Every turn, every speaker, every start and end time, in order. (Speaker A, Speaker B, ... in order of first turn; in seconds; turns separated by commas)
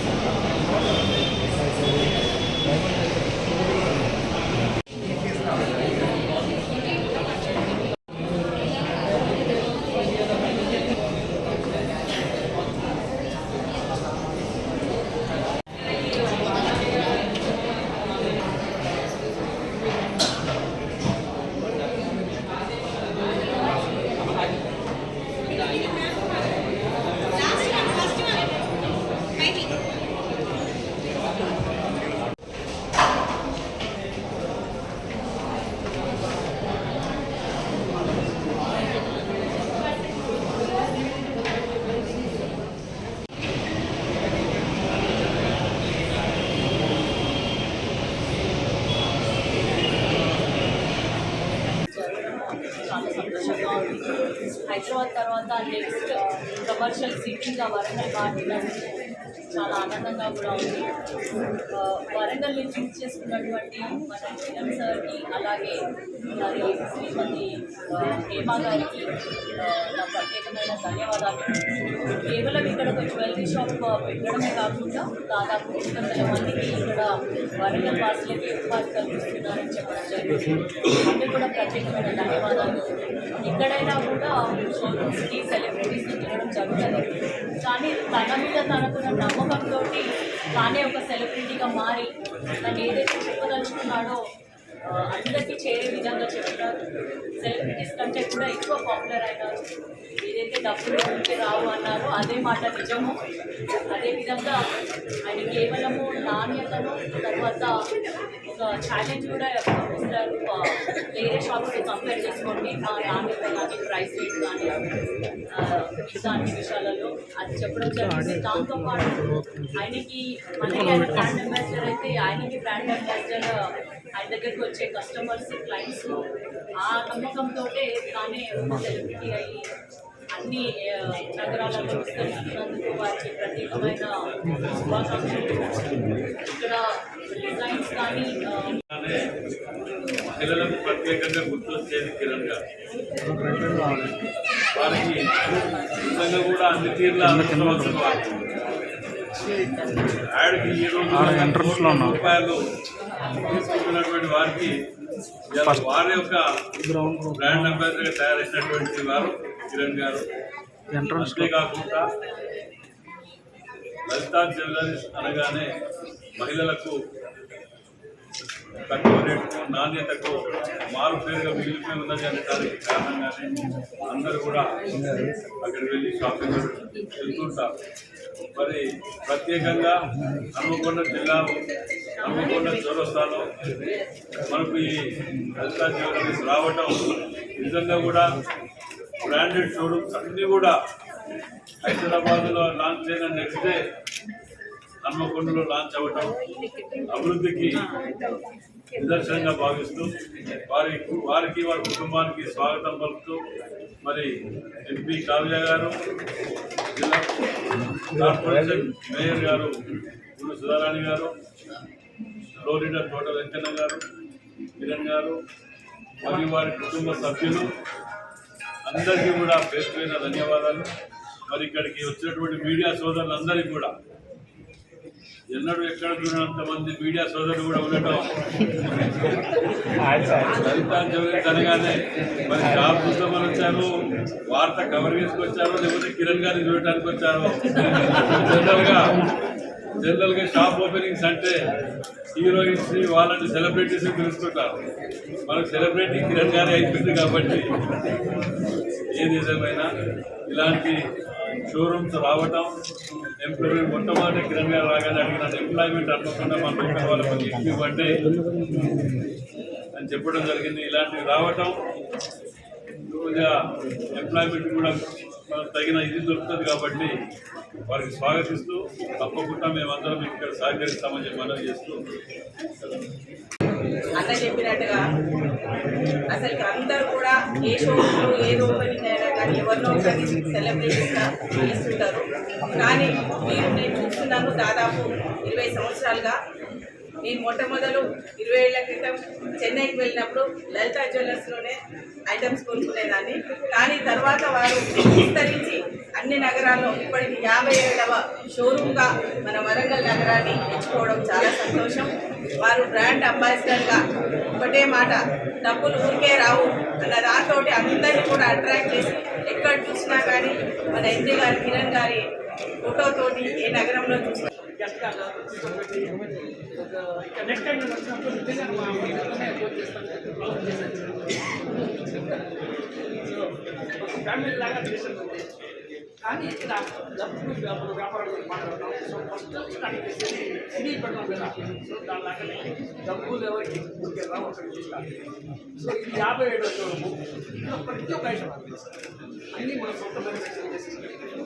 Speaker A: 51.9-54.1, Speaker A: 54.7-58.9, Speaker A: 59.5-60.9, Speaker A: 61.7-65.8, Speaker A: 66.4-69.1, Speaker A: 69.6-71.6, Speaker A: 72.2-82.8, Speaker A: 83.4-87.1, Speaker A: 87.6-94.2, Speaker A: 94.9-96.7, Speaker A: 97.4-99.6, Speaker A: 100.2-103.2, Speaker A: 103.9-104.6, Speaker A: 105.3-107.7, Speaker A: 108.5-114.8, Speaker A: 115.5-123.6, Speaker A: 124.2-126.2, Speaker A: 126.8-129.7, Speaker A: 130.3-138.8, Speaker B: 138.9-139.2, Speaker B: 140.3-142.6, Speaker C: 143.3-144.1, Speaker B: 144.8-148.2, Speaker C: 147.2-148.0, Speaker B: 150.2-152.6, Speaker C: 151.1-152.2, Speaker B: 153.4-154.7, Speaker B: 155.5-156.4, Speaker C: 155.6-155.9, Speaker C: 156.8-157.8, Speaker B: 157.4-160.2, Speaker C: 160.9-161.5, Speaker B: 161.2-162.0, Speaker B: 164.1-165.7, Speaker B: 166.4-166.9, Speaker B: 168.9-174.6, Speaker B: 175.6-177.7, Speaker B: 178.6-179.9, Speaker B: 180.5-181.5, Speaker B: 182.2-183.4, Speaker B: 184.5-185.0, Speaker B: 185.6-188.3, Speaker B: 189.2-190.8, Speaker B: 191.8-193.8, Speaker B: 195.0-196.3, Speaker B: 197.1-197.8, Speaker B: 199.0-200.1, Speaker B: 200.7-203.4, Speaker B: 204.0-204.3, Speaker B: 204.9-205.9, Speaker B: 207.0-207.3, Speaker B: 208.1-209.7, Speaker B: 210.4-211.3, Speaker B: 212.6-214.0, Speaker B: 214.8-215.4, Speaker B: 216.2-217.7, Speaker B: 218.9-220.9, Speaker B: 221.5-223.9, Speaker B: 225.5-233.9, Speaker B: 234.5-239.1, Speaker B: 240.0-241.5, Speaker B: 242.4-244.8, Speaker B: 245.5-247.7, Speaker B: 249.2-249.9, Speaker B: 250.5-251.0, Speaker B: 251.7-252.7, Speaker B: 253.4-258.3, Speaker C: 258.4-259.1, Speaker B: 259.9-261.8, Speaker B: 263.1-263.5, Speaker B: 264.1-265.0, Speaker B: 265.5-267.1, Speaker B: 267.9-272.0, Speaker D: 274.2-275.1, Speaker D: 276.3-286.4, Speaker D: 287.2-291.8, Speaker D: 292.3-302.1, Speaker D: 302.6-304.0, Speaker D: 304.6-312.2, Speaker D: 312.8-314.5, Speaker E: 314.8-316.1, Speaker E: 316.7-322.4, Speaker E: 323.2-325.5, Speaker E: 326.2-335.0, Speaker E: 335.8-338.9, Speaker E: 339.5-341.2